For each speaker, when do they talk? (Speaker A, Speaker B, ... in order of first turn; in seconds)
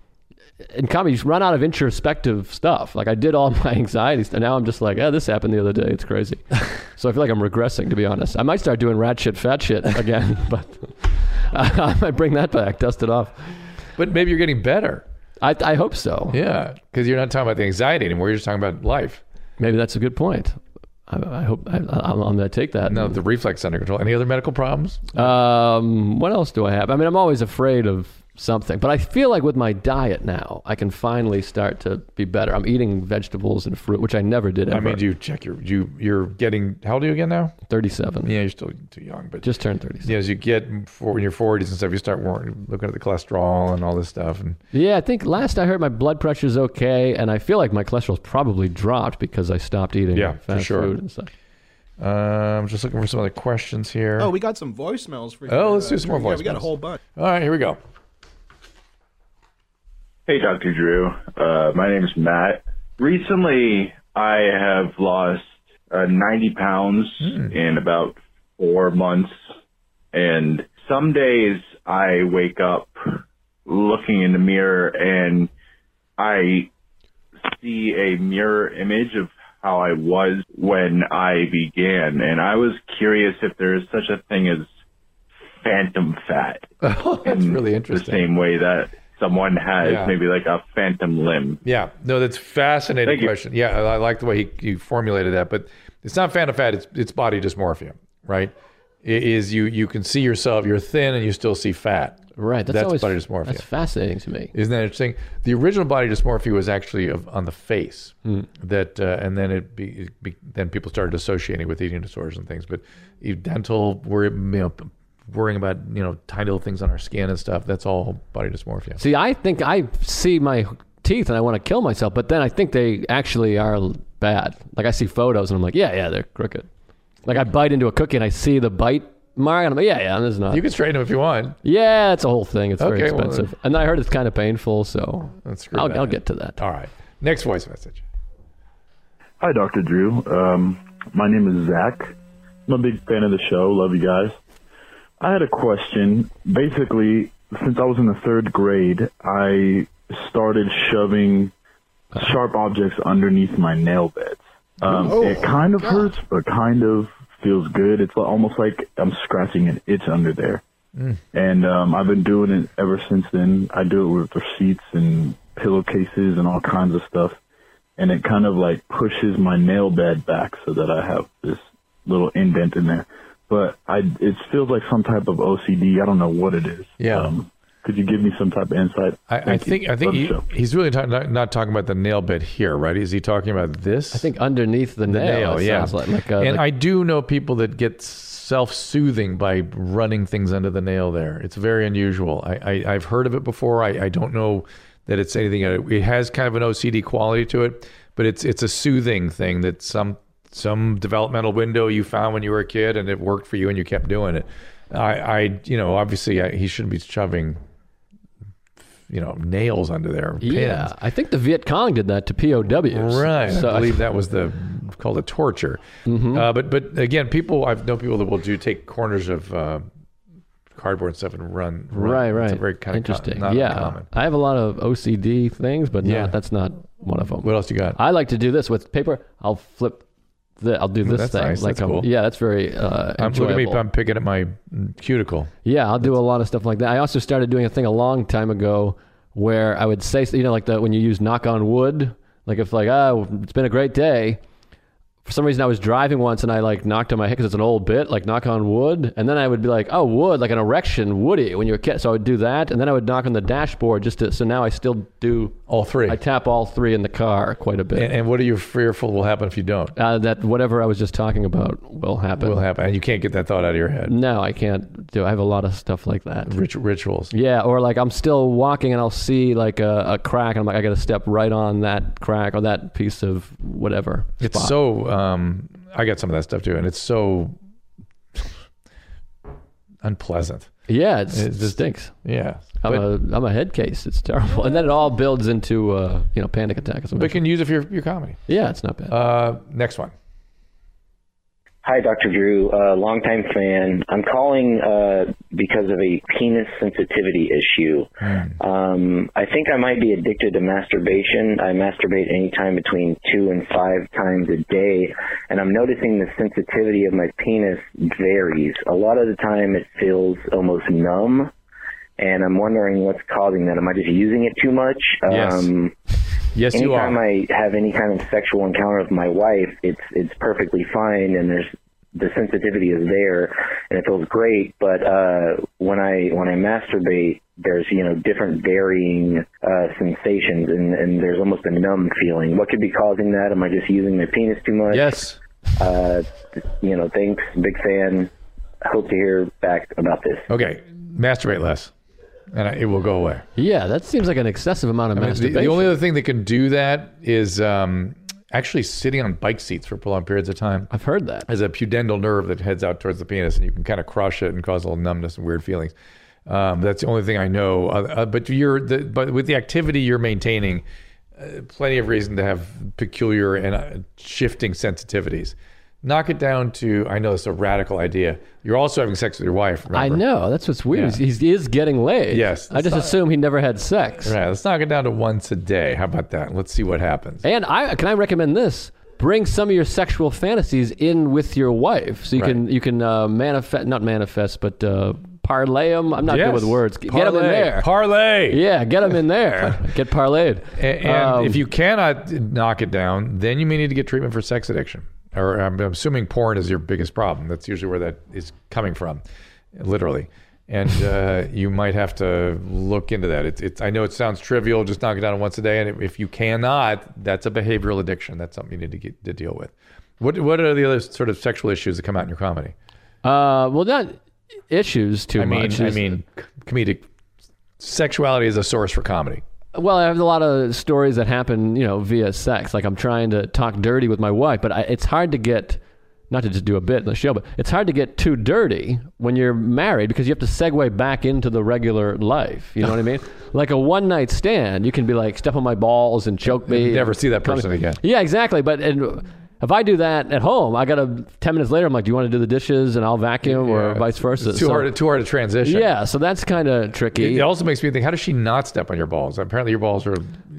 Speaker A: 0.6-13.6, 15.4-16.4, 19.6-23.2, 25.1-35.0, 37.7-38.3, 39.4-40.1, 44.7-51.3, 102.4-104.5, 119.0-126.7, 127.3-130.6, 131.6-136.6, 184.1-186.6, 210.4-214.0, 216.1-216.5, 221.9-230.1, 230.6-233.8, 235.7-244.4, 245.2-258.1, 260.0-262.6, 264.1-266.6, 267.3-274.8, 280.9-282.1, 282.8-287.4, 288.5-289.1, 334.9-335.4, 343.6-346.0, 350.9-351.5, 369.9-374.4, 377.4-387.9, 388.5-391.6, 413.2-414.2, 414.7-416.1, 419.7-444.9, 445.6-447.5
Speaker B: 14.0-15.0, 16.3-19.2, 22.9-25.3, 34.7-37.6, 38.2-39.5, 40.0-44.6, 50.1-51.0, 52.0-54.3, 55.5-57.8, 67.2-67.5, 86.8-88.3, 89.8-90.2, 91.6-103.7, 104.5-119.0, 130.5-131.6, 132.8-133.5, 135.4-138.0, 177.0-177.3, 179.3-184.3, 185.1-207.6, 209.1-210.9, 212.9-219.9, 220.8-224.1, 226.0-226.4, 227.4-228.0, 231.0-232.1, 233.2-236.1, 255.7-256.2, 257.9-259.9, 262.4-264.1, 266.5-267.3, 274.4-277.6, 280.0-280.7, 281.3-283.1, 287.2-288.4, 289.1-290.1, 298.3-298.5, 315.3-315.7, 316.5-317.2, 340.5-341.9, 342.5-343.5, 345.1-350.9, 351.5-355.9, 356.5-360.9, 361.4-370.2, 370.9-371.2, 372.3-373.2, 374.2-377.4, 386.3-388.6, 390.8-399.2, 399.7-412.7, 415.4-417.1, 417.8-419.4, 436.5-438.0, 443.4-445.9, 447.1-450.5
Speaker C: 54.2-57.0
Speaker D: 60.3-69.4, 70.1-75.5, 76.2-76.7, 77.4-84.7, 85.6-86.7, 87.2-91.6, 93.0-93.3
Speaker E: 139.4-142.1, 142.7-144.4, 145.2-151.5, 152.2-160.6, 161.3-167.4, 168.0-180.4
Speaker F: 291.8-311.5, 312.2-316.0, 316.7-338.3, 338.8-340.5